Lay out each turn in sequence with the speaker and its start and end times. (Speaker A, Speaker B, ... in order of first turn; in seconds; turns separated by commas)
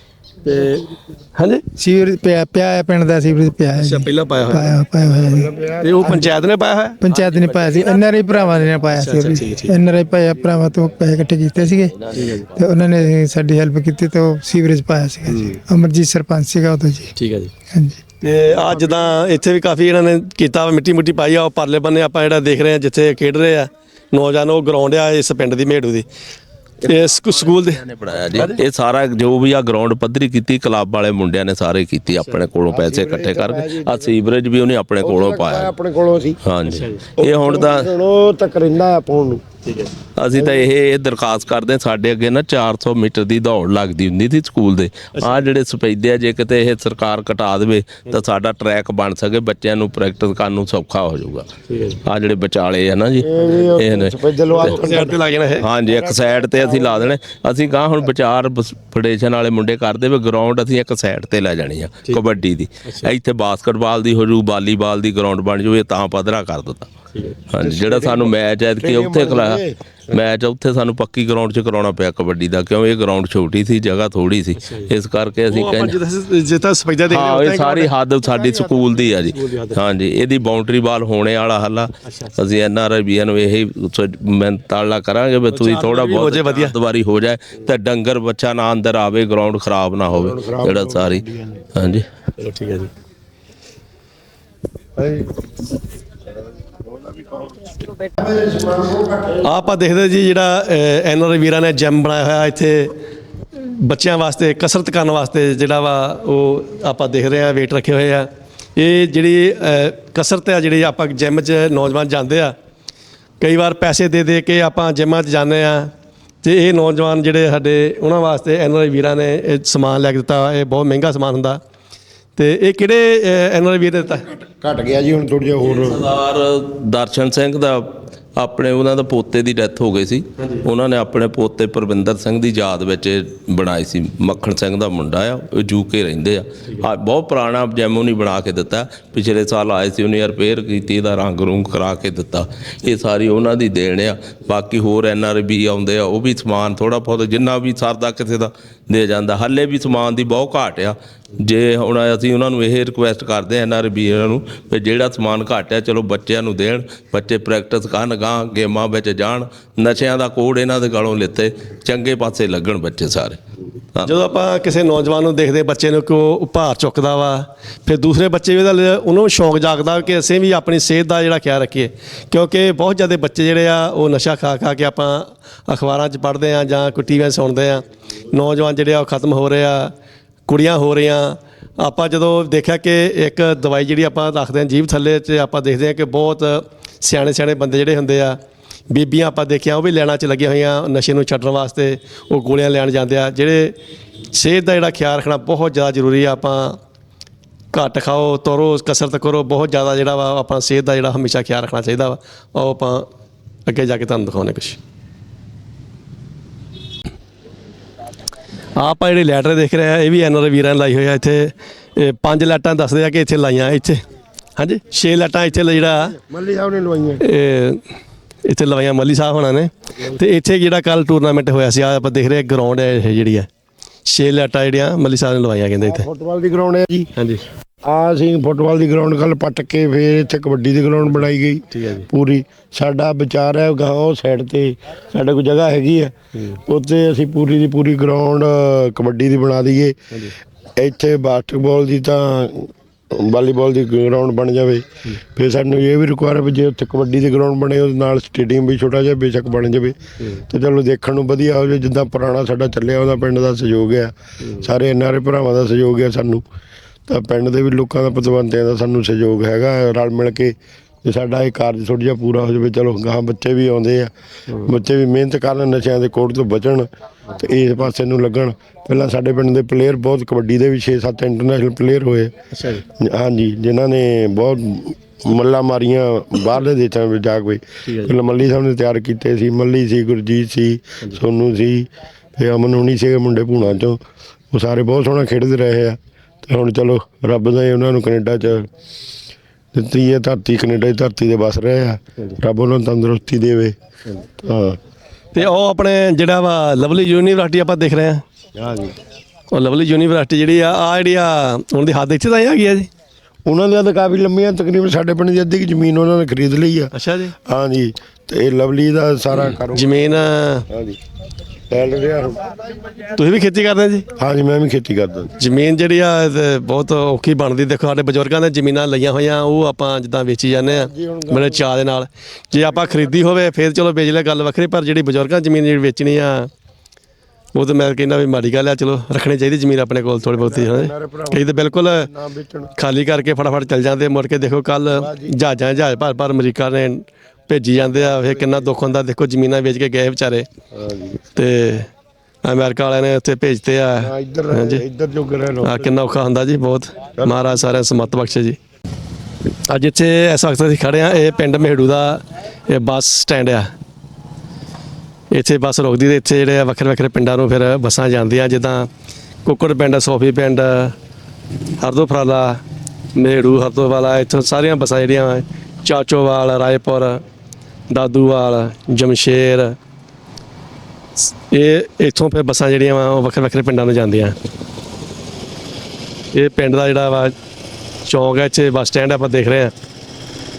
Speaker A: 0.4-1.6, Speaker B: 1.8-5.5, Speaker A: 3.8-4.7, Speaker C: 5.2-6.3, Speaker A: 5.8-7.8, Speaker B: 7.0-12.0, Speaker A: 8.9-9.8, Speaker A: 12.1-12.5, Speaker B: 12.5-17.1, Speaker A: 15.3-15.6, Speaker A: 17.1-17.5, Speaker B: 17.7-18.0, Speaker A: 18.2-26.1, Speaker A: 26.8-27.8, Speaker D: 27.6-35.7, Speaker C: 32.7-34.1, Speaker C: 35.0-36.4, Speaker D: 36.4-37.9, Speaker A: 36.6-37.0, Speaker C: 37.2-39.4, Speaker A: 39.6-39.9, Speaker D: 40.2-51.5, Speaker C: 40.3-40.6, Speaker A: 45.1-45.4, Speaker A: 51.7-52.0, Speaker D: 52.0-54.7, Speaker C: 53.2-55.2, Speaker A: 54.6-55.6, Speaker D: 55.6-66.9, Speaker C: 55.8-57.1, Speaker A: 62.8-63.1, Speaker D: 67.5-69.6, Speaker C: 67.6-69.8, Speaker D: 70.1-76.0, Speaker A: 74.5-74.9, Speaker A: 75.5-79.8, Speaker D: 77.1-91.2, Speaker A: 82.0-82.3, Speaker A: 85.5-86.8, Speaker C: 90.1-91.6, Speaker D: 91.7-92.0, Speaker A: 92.4-92.9, Speaker C: 95.0-95.3, Speaker C: 96.8-99.4, Speaker A: 99.4-103.0, Speaker A: 103.5-112.5, Speaker A: 113.4-121.6, Speaker A: 122.4-124.2, Speaker C: 124.3-126.0, Speaker D: 125.6-163.4, Speaker A: 164.0-179.9, Speaker A: 180.5-188.4, Speaker A: 188.9-193.8, Speaker A: 194.3-196.8, Speaker A: 197.7-203.1, Speaker A: 203.7-204.8, Speaker A: 208.8-214.0, Speaker A: 214.6-216.1, Speaker C: 216.1-217.2, Speaker A: 217.2-217.8, Speaker A: 218.5-223.5, Speaker A: 224.1-226.0, Speaker C: 225.9-227.1, Speaker A: 227.2-227.4, Speaker C: 227.8-236.1, Speaker A: 231.7-232.1, Speaker C: 236.7-239.9, Speaker C: 240.8-250.0, Speaker C: 250.5-256.4, Speaker A: 254.4-254.7, Speaker C: 257.1-264.1, Speaker C: 264.6-272.3, Speaker A: 272.5-272.8, Speaker C: 272.9-288.7, Speaker A: 277.9-278.1, Speaker C: 289.7-293.7, Speaker C: 294.4-294.8, Speaker A: 295.3-298.2, Speaker C: 298.5-298.9, Speaker A: 299.5-302.9, Speaker C: 303.4-306.9, Speaker A: 306.9-307.3, Speaker C: 307.4-311.0, Speaker A: 309.7-310.7, Speaker C: 311.7-312.6, Speaker A: 313.1-314.1, Speaker C: 314.1-315.3, Speaker A: 315.4-326.5, Speaker C: 320.7-321.6, Speaker C: 322.5-323.1, Speaker A: 327.5-332.1, Speaker C: 330.2-332.7, Speaker A: 332.8-340.4, Speaker C: 334.9-335.3, Speaker C: 338.0-338.6, Speaker C: 340.7-341.2, Speaker A: 341.3-341.9, Speaker A: 342.4-344.8, Speaker C: 344.0-345.9, Speaker A: 345.6-348.6, Speaker A: 349.7-353.7, Speaker A: 355.3-358.9, Speaker A: 359.4-360.9, Speaker A: 361.8-362.6, Speaker A: 363.1-367.2, Speaker A: 367.9-369.8, Speaker A: 371.2-374.4, Speaker A: 376.3-377.3, Speaker A: 378.1-379.7